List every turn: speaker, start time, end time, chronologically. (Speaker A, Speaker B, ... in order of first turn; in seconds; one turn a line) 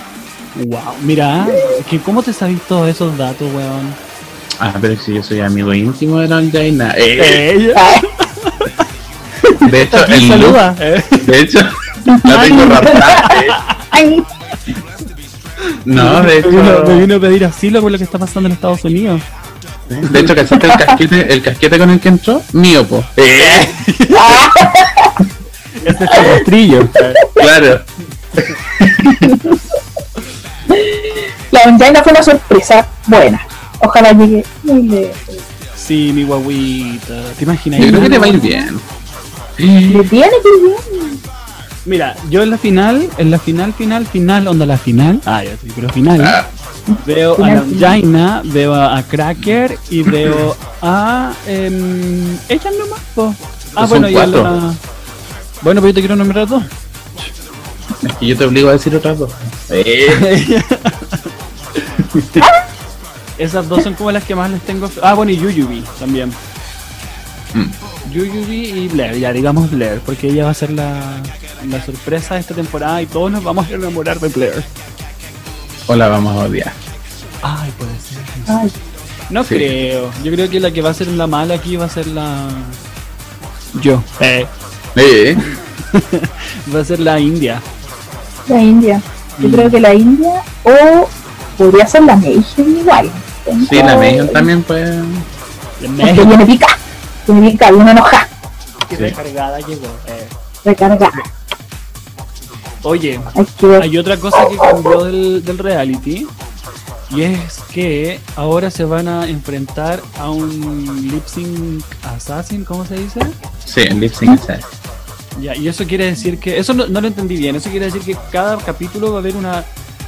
Speaker A: 0.6-4.0
Speaker B: 4.6-7.4
Speaker A: 7.2-8.8
Speaker C: 7.8-8.1
Speaker A: 9.4-11.3
Speaker B: 9.6-10.6
Speaker B: 11.2-13.6
Speaker C: 12.1-13.4
Speaker A: 12.6-13.9
Speaker C: 13.9-14.3
Speaker A: 15.7-19.2
Speaker B: 15.8-17.1
Speaker B: 19.9-23.8
Speaker C: 20.5-21.0
Speaker A: 23.3-24.4
Speaker C: 24.1-25.2
Speaker A: 25.8-27.2
Speaker C: 26.1-26.4
Speaker C: 27.2-27.5
Speaker B: 27.4-29.3
Speaker C: 29.2-29.5
Speaker C: 30.7-35.4
Speaker A: 35.8-38.4
Speaker B: 37.8-38.8
Speaker C: 37.8-38.7
Speaker B: 39.6-40.1
Speaker C: 39.9-41.2
Speaker A: 41.9-46.4
Speaker B: 46.2-46.5
Speaker C: 46.9-48.0
Speaker A: 47.0-54.8
Speaker B: 50.1-50.4
Speaker B: 53.8-54.6
Speaker A: 55.6-56.7
Speaker B: 58.0-60.3
Speaker A: 60.1-62.4
Speaker A: 63.4-66.4
Speaker A: 68.1-74.7
Speaker B: 75.9-76.8
Speaker A: 77.4-78.6
Speaker C: 78.5-78.7
Speaker A: 79.3-82.8
Speaker B: 79.4-79.7
Speaker A: 83.8-84.5
Speaker B: 85.0-85.4
Speaker A: 85.5-87.6
Speaker C: 88.5-94.5
Speaker A: 89.4-89.8
Speaker B: 93.6-95.3
Speaker A: 95.8-96.4
Speaker C: 96.0-98.3
Speaker A: 98.9-100.3
Speaker C: 100.6-101.2
Speaker A: 102.8-106.3
Speaker C: 103.3-103.9
Speaker A: 107.1-113.4
Speaker B: 113.7-114.7
Speaker A: 115.4-119.7